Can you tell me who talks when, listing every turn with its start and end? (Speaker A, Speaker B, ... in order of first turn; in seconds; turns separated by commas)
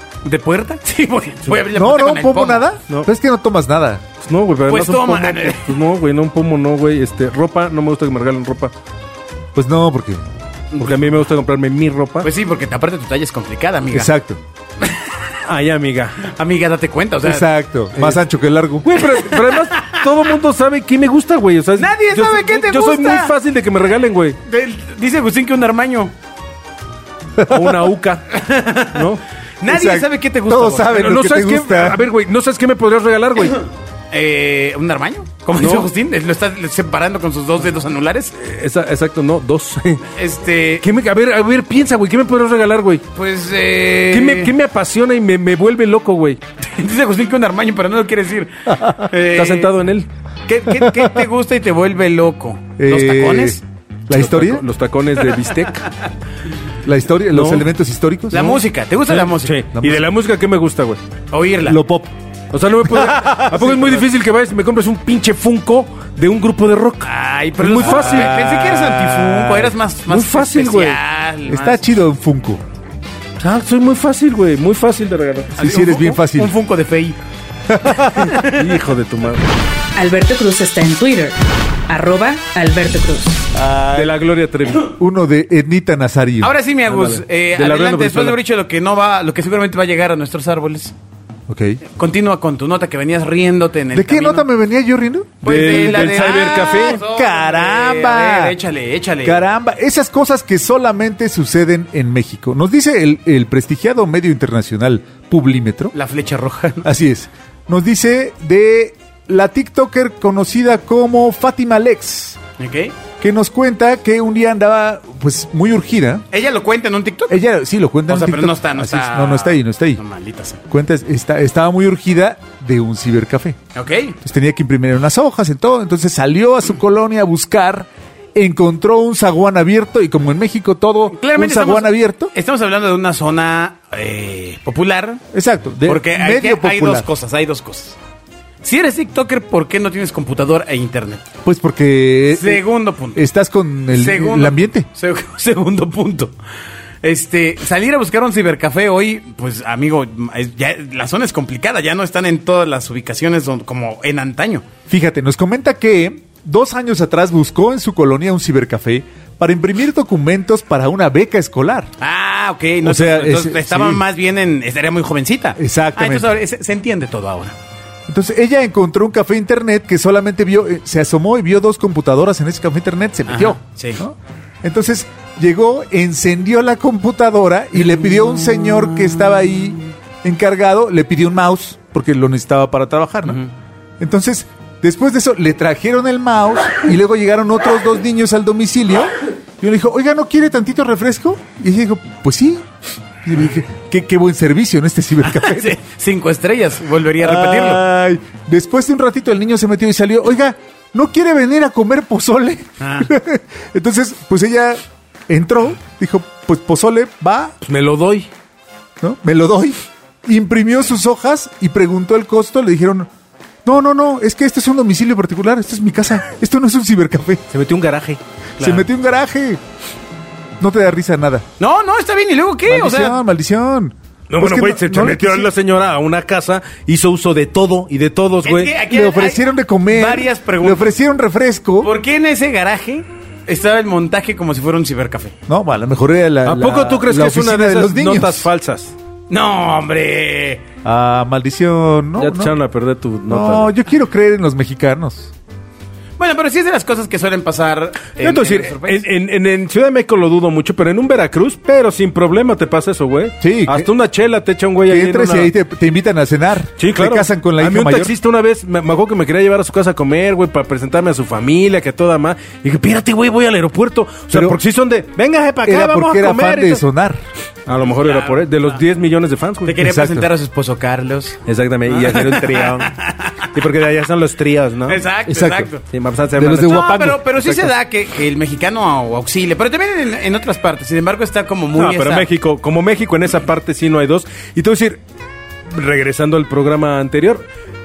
Speaker A: 0.2-2.6, Speaker B: 1.7-4.0, Speaker C: 4.2-8.7, Speaker A: 4.7-5.7, Speaker B: 9.6-10.2, Speaker A: 10.7-11.0, Speaker C: 10.8-12.3, Speaker A: 12.2-14.1, Speaker B: 13.9-14.4, Speaker A: 14.8-15.2, Speaker C: 15.4-16.3, Speaker A: 16.2-17.5, Speaker B: 17.2-19.0, Speaker C: 18.8-24.4, Speaker A: 19.4-20.0, Speaker A: 21.8-23.3, Speaker A: 24.5-26.1, Speaker B: 27.4-27.7, Speaker C: 27.5-28.4, Speaker A: 28.3-29.1, Speaker C: 28.9-29.2, Speaker A: 29.6-31.1, Speaker B: 29.7-32.0, Speaker C: 30.9-33.6, Speaker A: 34.1-38.3, Speaker C: 35.6-35.9, Speaker C: 38.4-40.1, Speaker A: 40.2-40.9, Speaker C: 40.8-43.0, Speaker A: 43.1-44.5, Speaker C: 44.1-46.4, Speaker A: 46.6-49.7, Speaker C: 49.2-50.1, Speaker A: 50.5-53.6, Speaker B: 50.7-51.2, Speaker B: 52.8-54.6, Speaker C: 54.1-55.9, Speaker B: 56.8-58.5, Speaker C: 57.3-57.7, Speaker A: 58.3-59.6, Speaker C: 58.3-61.0, Speaker B: 59.7-60.0, Speaker A: 61.3-61.8, Speaker B: 61.7-62.1, Speaker C: 62.5-71.0, Speaker B: 62.9-64.0, Speaker A: 67.0-71.8, Speaker B: 67.8-69.3, Speaker B: 71.5-72.6, Speaker C: 73.4-75.6, Speaker A: 75.6-77.2, Speaker B: 75.6-76.5, Speaker B: 77.7-78.3, Speaker A: 78.2-78.8, Speaker C: 78.3-79.5, Speaker D: 80.0-81.4, Speaker D: 81.9-83.4, Speaker B: 83.5-84.1, Speaker C: 83.9-84.9, Speaker B: 85.0-86.5, Speaker A: 86.4-90.9, Speaker C: 86.9-88.4, Speaker B: 91.5-91.8, Speaker A: 92.0-94.5, Speaker B: 93.9-98.6, Speaker A: 95.4-99.4, Speaker C: 95.4-97.0, Speaker B: 99.2-105.9, Speaker A: 105.9-106.9, Speaker B: 106.8-112.4, Speaker A: 112.6-113.0, Speaker B: 113.2-116.2, Speaker A: 116.3-117.4, Speaker B: 117.3-120.0, Speaker A: 118.1-120.6, Speaker B: 120.7-123.6, Speaker A: 123.8-124.2, Speaker B: 124.2-132.3, Speaker A: 131.1-135.2, Speaker B: 135.3-137.1, Speaker A: 135.8-138.0, Speaker A: 138.6-141.2, Speaker B: 141.4-144.9, Speaker A: 142.3-143.2, Speaker A: 143.9-146.3, Speaker A: 147.0-154.7, Speaker B: 154.9-161.9, Speaker A: 162.0-167.6, Speaker B: 162.8-164.0, Speaker B: 165.6-166.3, Speaker B: 168.1-183.4, Speaker A: 173.3-174.0, Speaker A: 183.3-183.5, Speaker B: 184.0-192.7, Speaker B: 193.2-195.8, Speaker A: 195.2-197.8, Speaker B: 197.2-207.5, Speaker A: 202.8-203.1, Speaker C: 207.6-208.3, Speaker B: 209.0-213.1, Speaker B: 213.7-217.4, Speaker C: 217.5-218.2, Speaker A: 218.6-218.9, Speaker B: 218.6-219.6, Speaker B: 220.6-221.4, Speaker A: 221.6-223.2, Speaker B: 222.7-225.5, Speaker C: 224.3-228.7, Speaker A: 228.4-230.9, Speaker B: 228.9-231.9, Speaker A: 231.8-235.3, Speaker B: 235.5-238.5, Speaker C: 236.5-238.9, Speaker A: 239.3-240.7, Speaker B: 240.8-242.6, Speaker C: 242.2-243.7, Speaker B: 243.3-245.3, Speaker A: 246.2-249.0, Speaker C: 248.2-255.5, Speaker B: 253.4-253.9, Speaker B: 254.9-258.1, Speaker C: 256.8-266.8, Speaker B: 264.3-264.6, Speaker B: 265.6-267.2, Speaker C: 267.7-269.8, Speaker A: 267.8-268.8, Speaker A: 269.6-273.4, Speaker B: 269.8-270.3, Speaker C: 271.5-273.0, Speaker C: 273.5-277.7, Speaker A: 274.9-275.8, Speaker B: 275.3-275.7, Speaker B: 276.4-277.2, Speaker A: 276.6-282.3, Speaker C: 281.7-285.0, Speaker C: 285.7-287.4